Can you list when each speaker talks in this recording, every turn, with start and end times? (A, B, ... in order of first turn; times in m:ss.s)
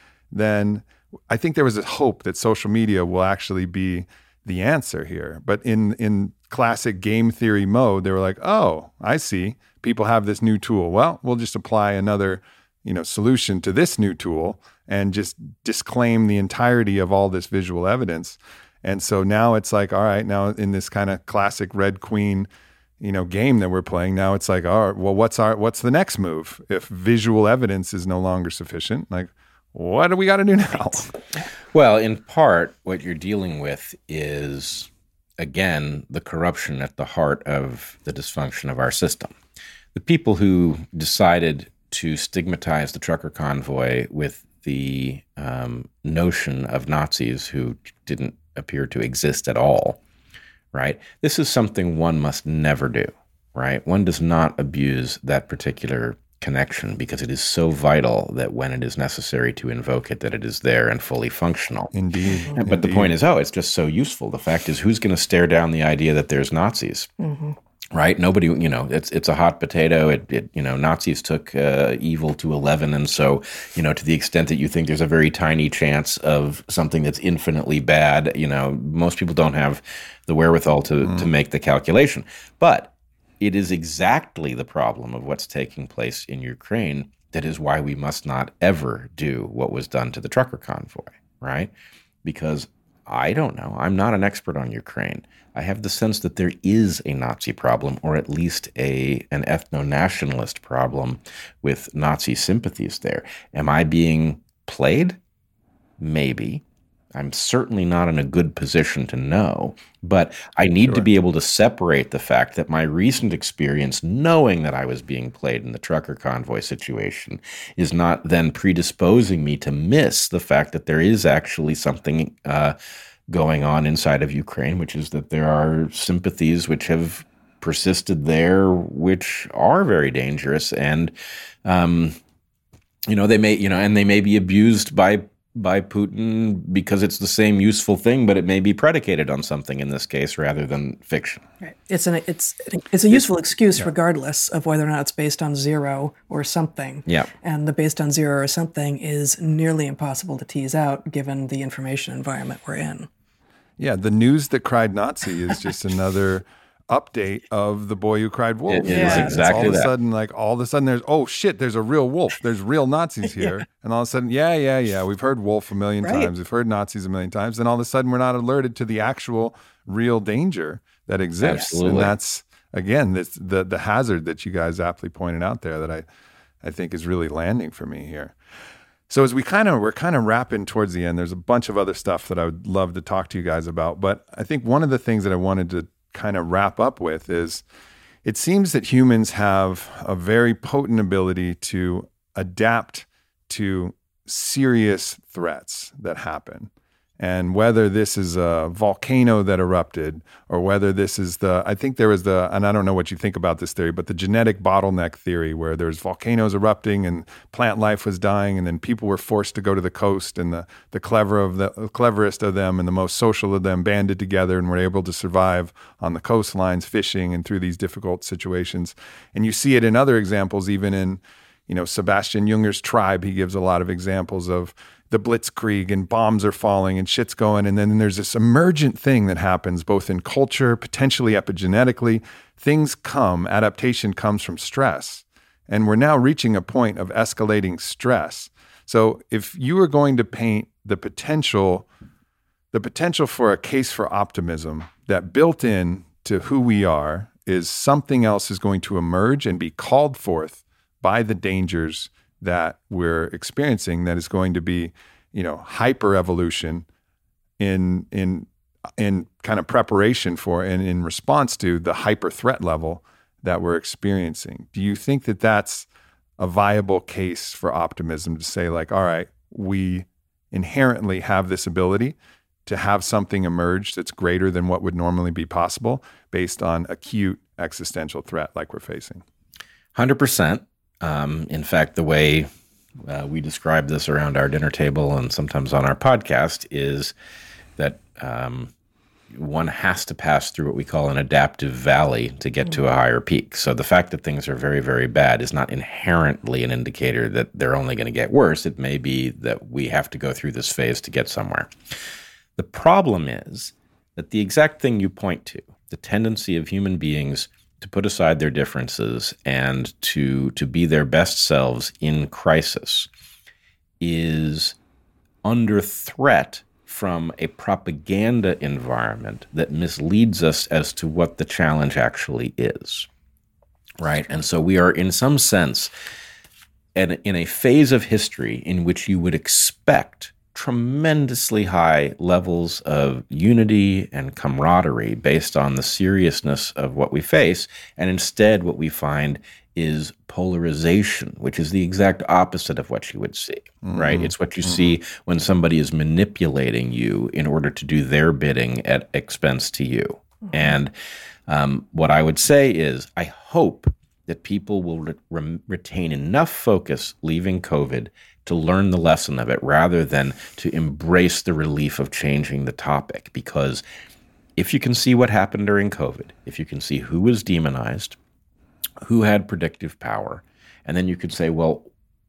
0:00.3-0:22.5 A
0:23.0-0:31.1 A
0:31.7-0:39.4 B
0:40.0-0:50.0 B
0:50.7-1:01.9 B
1:01.9-1:03.1 A
1:02.6-1:07.1 B
1:07.2-1:07.6 C
1:07.9-1:31.7 B
1:32.2-1:45.2 B
1:46.0-2:02.8 B
2:03.3-2:11.1 B
2:11.6-2:12.2 B
2:13.1-2:21.4 B
2:21.6-2:33.1 C
2:33.8-2:56.0 A
2:38.7-2:39.9 B
2:38.9-2:39.8 C
2:46.0-2:46.3 C
2:51.4-2:52.1 B
2:56.6-2:58.3 A
2:59.1-3:07.6 A
3:08.2-4:01.9 A
4:02.7-4:16.9 A
4:17.6-4:25.9 A
4:26.4-4:39.2 A
4:40.0-4:42.5 B
4:43.0-4:47.1 B
4:47.8-4:48.7 B
4:49.3-5:01.7 B
5:02.6-5:13.1 B
5:14.0-5:14.8 B
5:15.4-5:23.1 B
5:24.0-5:25.9 B
5:27.0-5:50.9 B
5:43.8-5:44.3 A
5:51.5-6:03.8 B
6:04.6-6:08.2 B
6:09.0-6:11.9 B